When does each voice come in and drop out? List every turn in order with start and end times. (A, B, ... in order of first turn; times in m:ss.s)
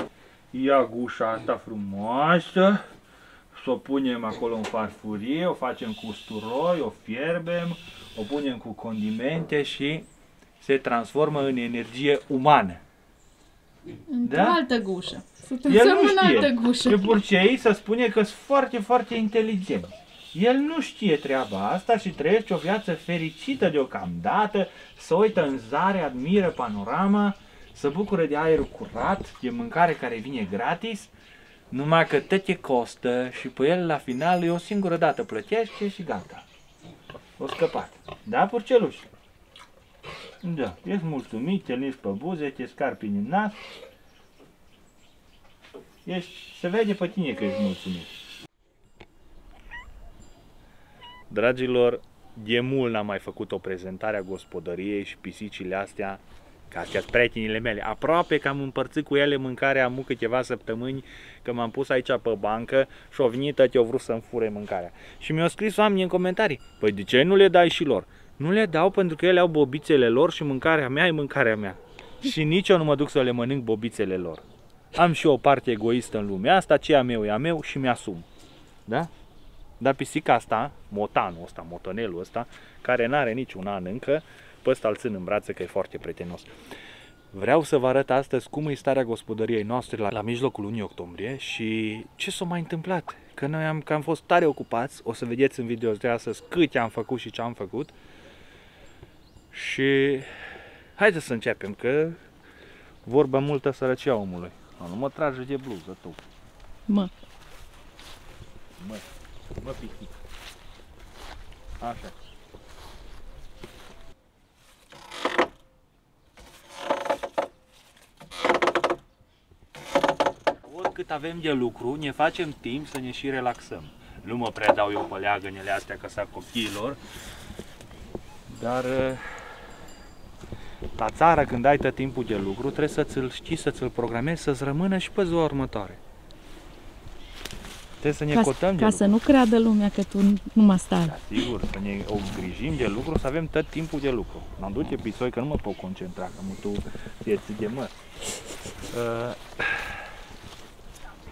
0:00.5-0:02.8 A
0:03.5-0:10.1 A
0:10.6-0:12.8 A
0:14.1-0:17.1 B
0:14.2-0:14.6 A
0:15.6-0:31.1 A
0:31.7-0:36.4 A
0:37.4-0:39.1 A
0:40.4-0:43.6 A
0:46.0-0:48.1 A
0:51.3-1:14.4 A
1:14.9-1:18.2 A
1:19.8-1:26.5 A
1:27.3-1:37.9 A
1:39.5-1:40.3 A
1:41.0-1:42.2 A
1:43.0-1:46.2 A
1:46.9-1:47.1 B
1:48.8-1:49.0 A
1:49.6-1:50.2 A
1:51.8-1:52.2 A
2:00.6-2:07.0 A
2:08.5-2:09.2 A
2:11.0-2:16.0 A
2:18.0-2:19.1 A
2:18.3-2:21.2 B
2:21.0-2:27.9 A
2:28.9-2:30.0 A